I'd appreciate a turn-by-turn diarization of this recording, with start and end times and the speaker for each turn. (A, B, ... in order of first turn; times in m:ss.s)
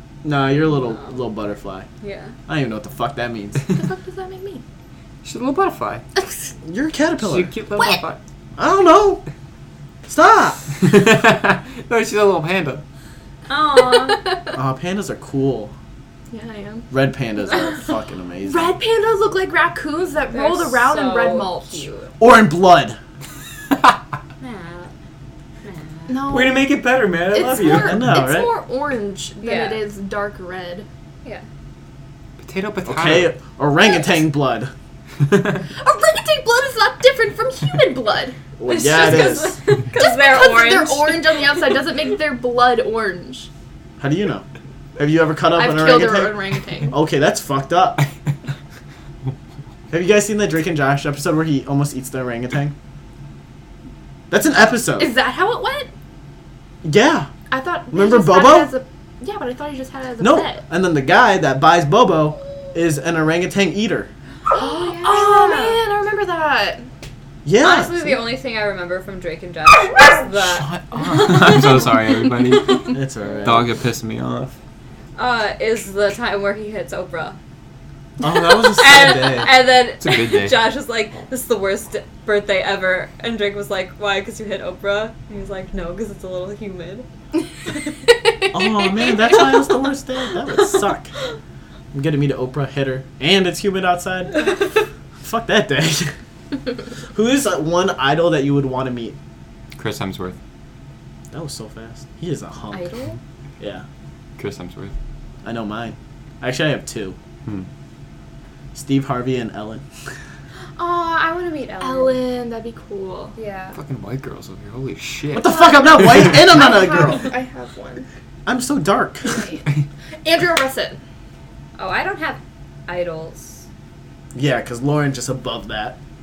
0:00.2-0:01.9 A
0:00.8-0:01.1 B
0:02.0-0:02.4 B
0:02.5-0:03.6 A
0:03.7-0:04.6 C
0:05.2-0:06.0 D
0:06.6-0:07.5 A
0:07.2-0:08.2 D
0:08.6-0:09.2 A
0:10.1-0:10.6 A
0:10.8-0:12.8 D
0:13.5-0:14.3 B
0:13.8-0:14.5 C
0:14.5-0:15.7 A
0:16.3-0:16.9 C
0:16.9-0:18.8 A
0:18.4-0:22.0 C
0:20.3-0:22.1 B
0:22.2-0:23.0 A
0:24.4-0:24.9 B
0:25.6-0:26.2 B
0:26.1-0:26.6 C
0:26.3-0:28.1 D
0:27.3-0:30.9 C
0:27.7-0:28.5 A
0:29.4-0:29.8 B
0:32.4-0:33.3 D
0:32.9-0:34.7 A
0:35.2-0:35.6 D
0:35.8-0:38.4 C
0:38.6-0:39.6 A
0:38.7-0:41.9 B
0:40.0-0:43.5 C
0:44.0-0:44.4 A
0:45.0-0:48.0 A
0:45.5-0:47.0 C
0:49.9-0:52.8 A
0:54.3-0:55.1 A
0:55.0-0:55.9 C
0:56.8-0:57.3 A
0:57.5-1:00.6 C
0:57.9-0:58.7 A
1:00.2-1:04.1 A
1:04.5-1:05.8 B
1:04.5-1:06.9 C
1:07.4-1:08.2 A
1:07.6-1:11.9 B
1:10.5-1:14.6 D
1:12.6-1:13.4 B
1:12.9-1:13.7 A
1:15.2-1:17.4 B
1:18.2-1:19.5 A
1:18.7-1:27.1 B
1:20.0-1:20.6 D
1:28.3-1:28.6 C
1:28.5-1:31.1 A
1:31.9-1:34.6 A
1:35.2-1:36.1 A
1:37.1-1:39.2 A
1:39.8-1:40.4 D
1:41.3-1:42.9 A
1:42.7-1:43.2 B
1:43.6-1:43.8 A
1:44.4-1:45.0 D
1:45.4-1:47.2 A
1:48.7-1:49.8 A
1:50.8-1:52.2 B
1:51.8-1:53.4 C
1:53.4-1:53.8 B
1:53.7-1:55.5 D
1:55.3-1:57.3 A
1:55.5-1:58.1 C
1:58.5-1:59.4 A
1:59.3-1:59.6 C
2:00.2-2:01.0 C
2:01.8-2:03.7 B
2:04.4-2:06.0 A